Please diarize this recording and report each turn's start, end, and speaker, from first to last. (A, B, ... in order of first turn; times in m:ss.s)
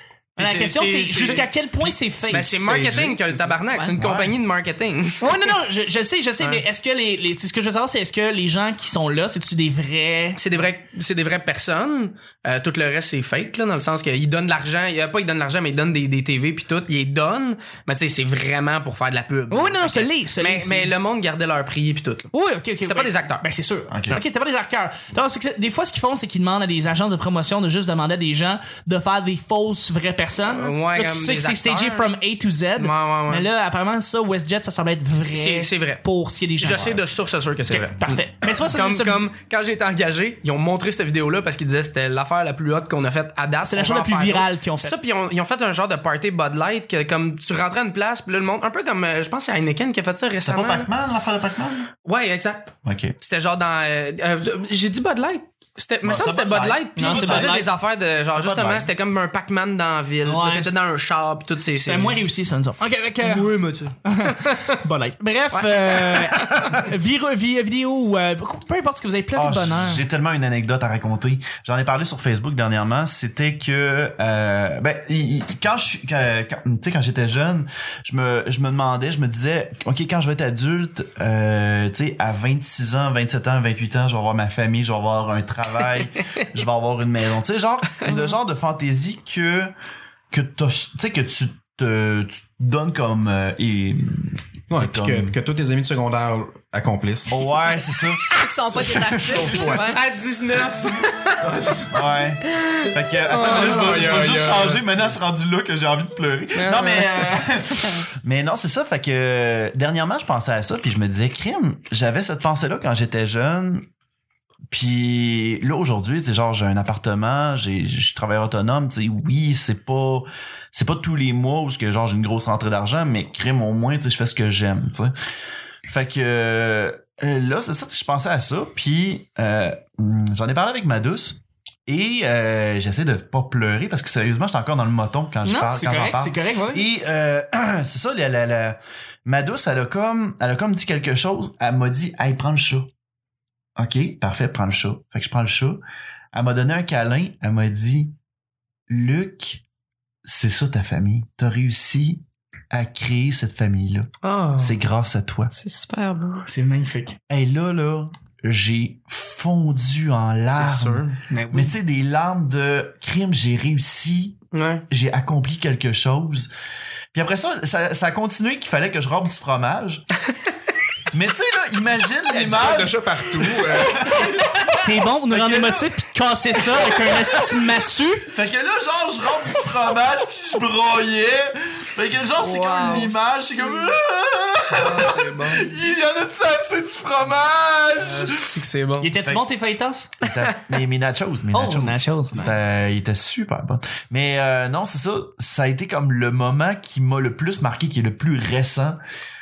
0:00.4-0:01.5 A
0:00.4-0:02.5 B
0:02.3-0:05.5 A
0:02.3-0:03.6 C
0:03.7-0:04.0 D
0:04.0-0:04.4 E
0:05.2-0:10.4 B
0:10.4-0:23.4 A
0:19.5-0:20.9 B
0:22.3-0:37.0 B
0:23.9-0:24.2 E
0:30.4-0:32.0 A
0:32.8-0:33.5 A
0:35.2-0:36.0 A
0:36.6-0:50.9 A
0:37.7-0:39.3 B
0:43.7-0:45.0 B
0:50.4-0:51.9 E
0:52.0-1:02.2 A
0:52.8-0:53.2 E
0:56.0-0:57.7 E
0:57.0-0:57.7 B
0:58.3-0:58.9 E
1:00.2-1:00.8 B
1:01.9-1:10.0 B
1:03.2-1:04.8 A
1:05.5-1:06.7 A
1:09.4-1:29.7 E
1:28.0-1:28.4 D
1:30.3-1:35.4 E
1:34.7-1:37.5 C
1:37.3-1:39.8 E
1:38.3-1:40.0 D
1:38.7-1:39.8 C
1:39.7-1:41.5 A
1:41.4-1:42.1 C
1:41.9-1:53.9 E
1:43.3-1:43.9 A
1:43.3-1:45.1 C
1:46.5-1:47.3 A
1:54.7-2:05.1 E
2:05.8-2:22.9 E
2:15.4-2:16.8 B
2:23.8-2:25.8 E
2:26.3-2:28.2 E
2:28.9-2:29.6 E
2:30.2-2:35.5 E
2:34.2-2:34.8 A
2:35.5-2:36.5 D
2:36.5-2:37.2 B
2:37.3-2:46.5 E
2:40.5-2:41.2 A
2:41.3-2:41.7 B
2:44.5-2:44.8 A
2:47.1-2:50.1 E
2:51.1-2:54.8 E
2:52.3-2:54.3 C
2:54.7-2:58.3 B
2:55.3-2:55.9 E
2:56.7-2:57.3 E
2:58.3-3:08.5 E
3:02.4-3:03.1 D
3:04.7-3:05.7 A
3:08.0-3:09.1 A
3:09.0-3:10.1 B
3:10.2-3:19.0 E
3:11.5-3:12.6 B